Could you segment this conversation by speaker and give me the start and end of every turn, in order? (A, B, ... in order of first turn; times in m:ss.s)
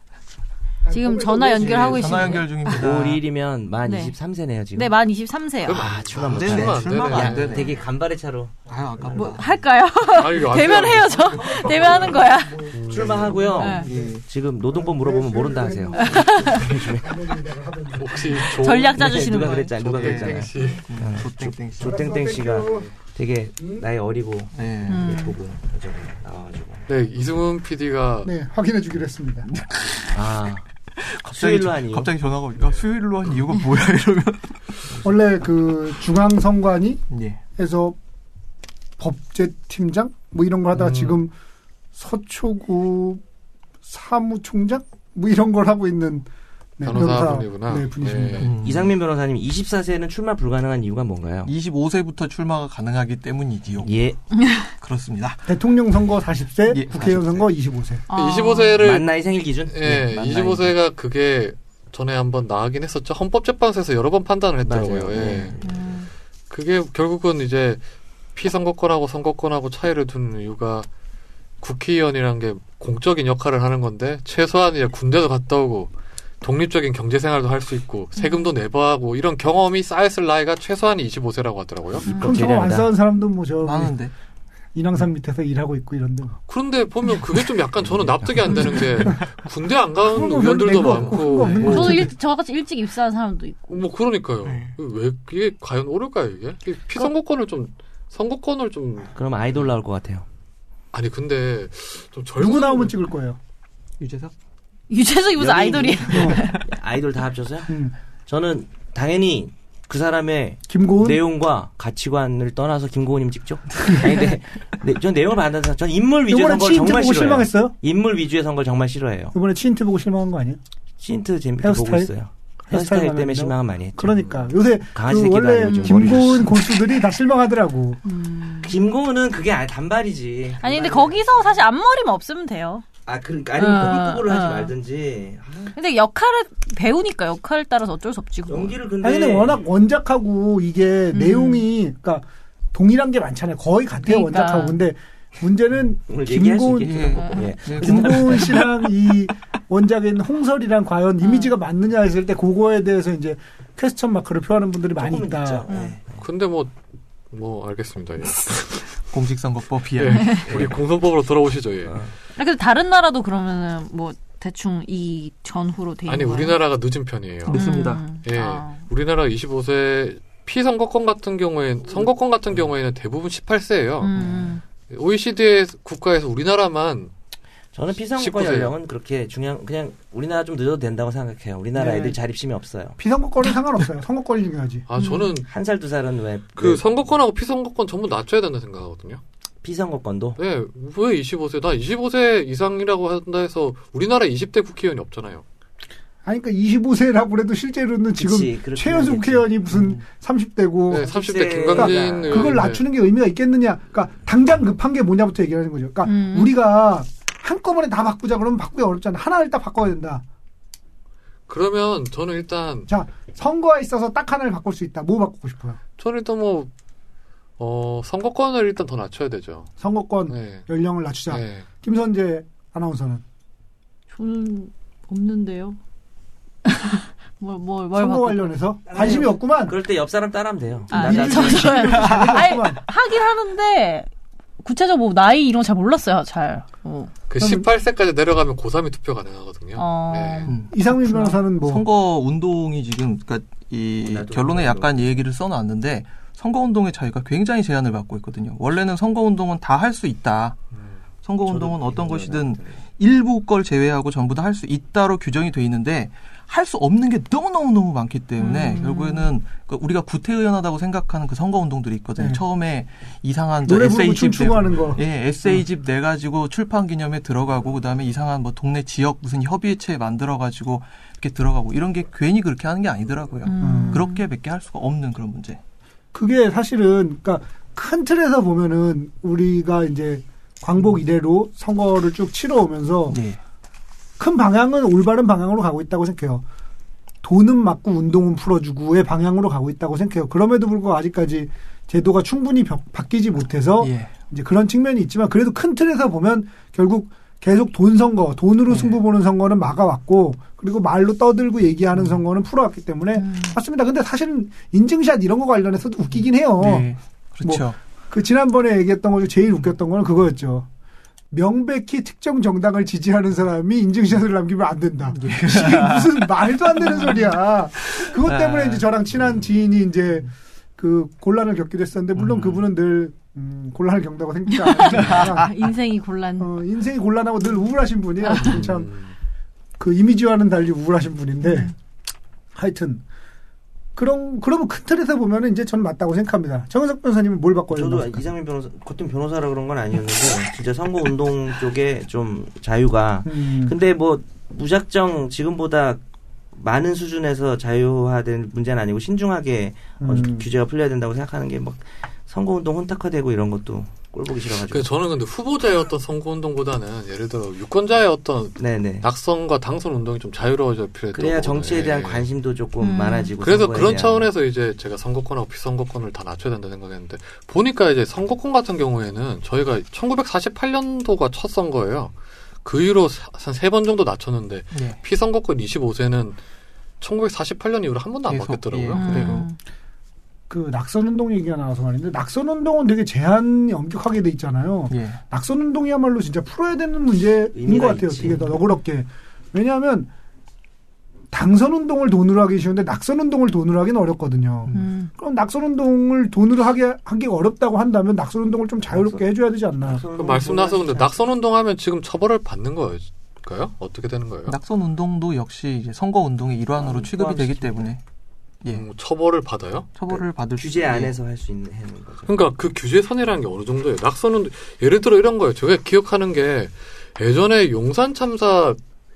0:00.8-0:02.4 A
0:00.9-0:02.8 B
0:01.6-0:03.2 C
0:02.7-0:04.9 D
0:03.8-0:04.1 B
0:04.7-0:05.9 B
0:05.6-0:07.8 E
0:05.7-0:09.4 D
0:06.2-0:07.8 C
0:08.7-0:09.0 A
0:08.7-0:09.6 C
0:09.1-0:12.7 B
0:10.1-0:12.2 E
0:10.7-0:14.2 A
0:12.7-0:13.3 E
0:12.9-0:17.2 D
0:13.6-0:13.9 B
0:13.8-0:14.2 C
0:14.7-0:18.7 A
0:16.0-0:16.7 B
0:17.9-0:20.8 E
0:18.5-0:19.7 B
0:18.9-0:26.9 D
0:19.0-0:22.2 C
0:21.8-0:22.9 A
0:22.6-0:22.9 E
0:24.5-0:25.1 C
0:24.9-0:25.4 B
0:26.9-0:28.3 E
0:28.2-0:29.5 A
0:29.5-0:30.2 C
0:30.1-0:30.6 D
0:30.9-0:35.0 C
0:31.2-0:32.1 D
0:32.6-0:32.8 E
0:35.0-0:37.0 A
0:37.1-0:37.4 C
0:37.6-0:38.0 A
0:39.0-0:41.3 A
0:40.7-0:41.2 E
0:41.9-0:43.2 A
0:43.8-0:46.3 A
0:46.8-0:48.5 A
0:46.8-0:48.6 E
0:48.4-0:48.9 C
0:48.6-0:51.5 D
0:51.4-0:53.9 C
0:53.8-0:54.2 D
0:54.3-0:54.7 B
0:54.8-0:55.4 C
0:55.4-0:58.0 A
0:56.7-0:57.4 C
0:58.1-0:58.8 B
0:58.1-0:59.1 E
0:58.8-1:00.7 D
0:59.6-1:05.6 E
1:04.6-1:05.8 D
1:05.6-1:06.1 B
1:06.5-1:07.8 E
1:08.3-1:10.9 E
1:11.6-1:15.9 E
1:16.4-1:22.1 E
1:18.2-1:18.4 B
1:22.0-1:22.9 D
1:22.0-1:22.4 B
1:22.2-1:23.9 A
1:23.6-1:24.1 C
1:24.7-1:26.4 A
1:26.5-1:32.1 E
1:30.0-1:32.1 A
1:30.6-1:31.9 C
1:31.6-1:33.8 B
1:33.7-1:39.1 E
1:34.4-1:34.7 C
1:39.1-1:40.2 D
1:40.9-1:43.0 E
1:42.4-1:43.4 A
1:44.0-1:44.3 C
1:44.9-1:46.6 B
1:45.4-1:47.7 D
1:46.1-1:46.4 A
1:47.7-1:47.9 A
1:48.2-1:59.3 D
1:50.7-1:51.2 A
1:56.3-1:57.7 A
1:59.3-2:00.6 A
2:01.0-2:06.6 D
2:01.6-2:02.1 A
2:02.7-2:08.0 A
2:05.6-2:06.1 B
2:08.0-2:08.8 B
2:08.6-2:11.5 D
2:10.6-2:12.8 B
2:13.0-2:15.7 D
2:13.6-2:14.7 B
2:15.7-2:18.8 B
2:18.5-2:19.6 D
2:19.0-2:35.6 A
2:21.1-2:21.7 B
2:24.0-2:24.8 B
2:26.0-2:28.6 D
2:26.8-2:28.8 C
2:27.2-2:27.5 B
2:31.2-2:31.5 B
2:35.0-2:36.2 D
2:35.7-2:36.0 B
2:36.1-2:36.7 E
2:37.3-2:38.9 E
2:39.1-2:40.7 C
2:39.9-2:42.0 E
2:40.1-2:40.6 B
2:40.4-2:40.7 D
2:41.9-2:42.1 D
2:42.4-2:46.6 B
2:46.1-2:47.6 E
2:47.5-2:48.0 C
2:47.5-2:48.8 B
2:48.2-2:54.1 E
2:54.0-2:54.6 B
2:54.9-2:57.1 E
2:57.7-3:03.0 D
2:58.2-2:58.7 E
3:01.7-3:02.2 A
3:03.0-3:04.8 A
3:04.9-3:05.5 E
3:05.0-3:05.4 B
3:05.5-3:06.8 D
3:06.6-3:09.2 E
3:09.6-3:10.4 D
3:10.4-3:15.4 E
3:16.2-3:21.1 A
3:18.2-3:19.5 D
3:20.9-3:22.8 E
3:21.0-3:22.6 D
3:21.7-3:30.2 A
3:26.0-3:26.5 B
3:31.5-3:32.9 E
3:32.9-3:35.8 A
3:36.0-3:36.7 E
3:37.6-3:39.7 E
3:39.8-3:43.2 A
3:40.3-3:40.6 E
3:41.3-3:41.6 E
3:44.1-3:45.8 B
3:46.6-3:48.5 B
3:47.9-3:49.7 A
3:48.9-3:51.9 D
3:50.9-3:54.1 B
3:50.9-3:52.8 A
3:52.0-3:52.3 C
3:54.6-3:57.1 B
3:57.3-4:00.5 E
3:57.4-3:57.7 A
3:59.8-4:00.6 B
4:00.5-4:10.6 C
4:00.7-4:01.8 A
4:04.0-4:05.0 D
4:11.2-4:35.6 C
4:11.4-4:12.8 D
4:18.4-4:19.3 B
4:22.2-4:22.4 A
4:23.6-4:25.6 A
4:33.4-4:34.2 B
4:33.6-4:34.0 A
4:36.1-4:43.2 A
4:43.1-4:43.4 C
4:44.2-4:46.4 A
4:47.2-5:06.9 A
4:53.8-4:54.1 C
4:58.7-4:59.0 C
5:03.2-5:03.6 B
5:06.6-5:07.8 C
5:07.4-5:10.7 A
5:11.3-5:25.5 A
5:15.1-5:16.2 C
5:18.2-5:18.8 C
5:22.2-5:22.6 C
5:24.5-5:26.5 B
5:25.0-5:25.4 C
5:26.4-5:28.9 A
5:28.2-5:28.6 B
5:28.4-5:29.1 E
5:29.8-5:31.7 A
5:31.4-5:31.7 B
5:32.5-5:33.0 A
5:34.0-5:38.3 A
5:37.7-5:46.0 D
5:43.2-5:43.7 A
5:46.5-5:54.9 D
5:50.0-5:50.5 A
5:54.6-6:02.3 E
5:58.6-5:59.0 D
6:01.1-6:04.3 D
6:02.8-6:03.3 B
6:03.4-6:16.4 E
6:14.7-6:15.0 C
6:17.0-6:19.4 E
6:18.3-6:19.5 C
6:18.9-6:19.6 B
6:20.5-6:30.1 A
6:24.9-6:25.2 C
6:27.5-6:28.6 D
6:31.3-6:40.0 A
6:34.7-6:35.1 B
6:38.9-6:39.2 D
6:39.8-6:41.1 D
6:40.2-6:44.6 E
6:44.5-6:48.0 C
6:46.8-6:47.9 D
6:48.7-6:49.9 E
6:49.9-6:51.1 C
6:50.1-6:52.4 D
6:52.3-6:58.8 E